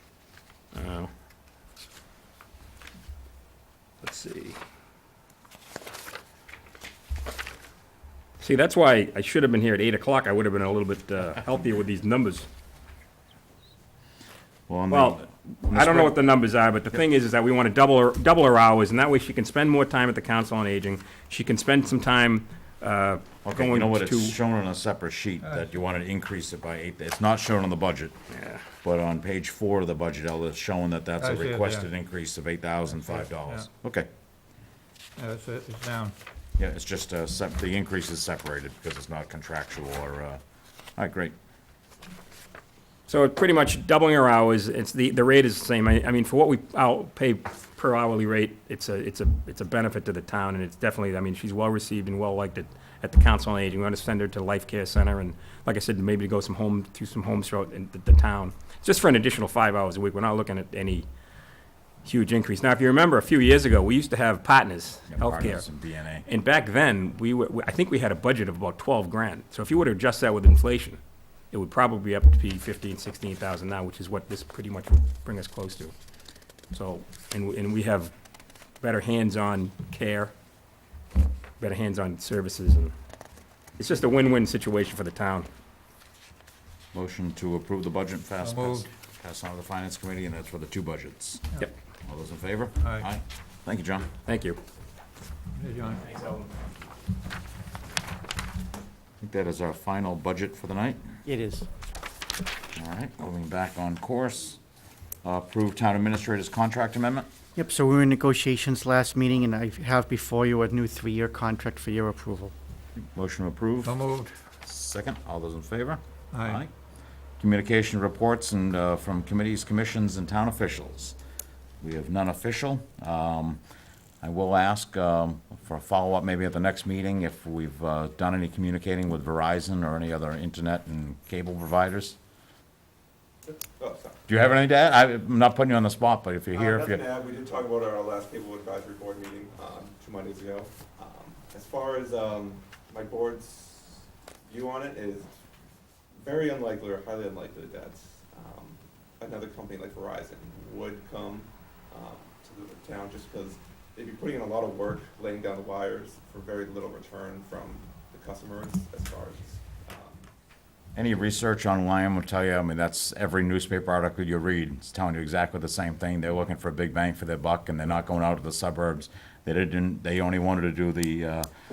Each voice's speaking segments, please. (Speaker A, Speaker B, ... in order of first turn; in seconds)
Speaker A: 0.7-1.1, 4.0-4.6, 8.4-12.5, 14.9-24.4, 28.3-28.6, 43.1-61.1, 62.0-65.7, 66.2-71.0, 71.5-75.9, 76.7-78.1, 78.8-80.3, 81.6-82.9, 83.8-85.5, 94.2-94.6, 96.0-96.5
Speaker B: 14.7-16.2, 23.4-28.1, 28.8-34.1, 36.6-40.4, 41.0-41.3, 65.1-66.2, 86.9-91.5, 92.0-94.1, 99.2-101.0, 102.8-104.6, 105.2-107.3, 113.0-114.0, 114.6-116.7, 117.4-121.2, 121.8-123.6, 124.2-132.2, 134.3-137.0, 160.9-171.5
Speaker C: 25.4-25.7, 31.2-31.9, 33.3-33.6, 35.2-36.1, 88.4-88.9, 95.5-96.0, 113.8-114.3, 116.3-116.6
Speaker D: 101.2-101.7, 107.5-112.5
Speaker E: 133.5-134.2, 136.5-145.3, 146.1-160.2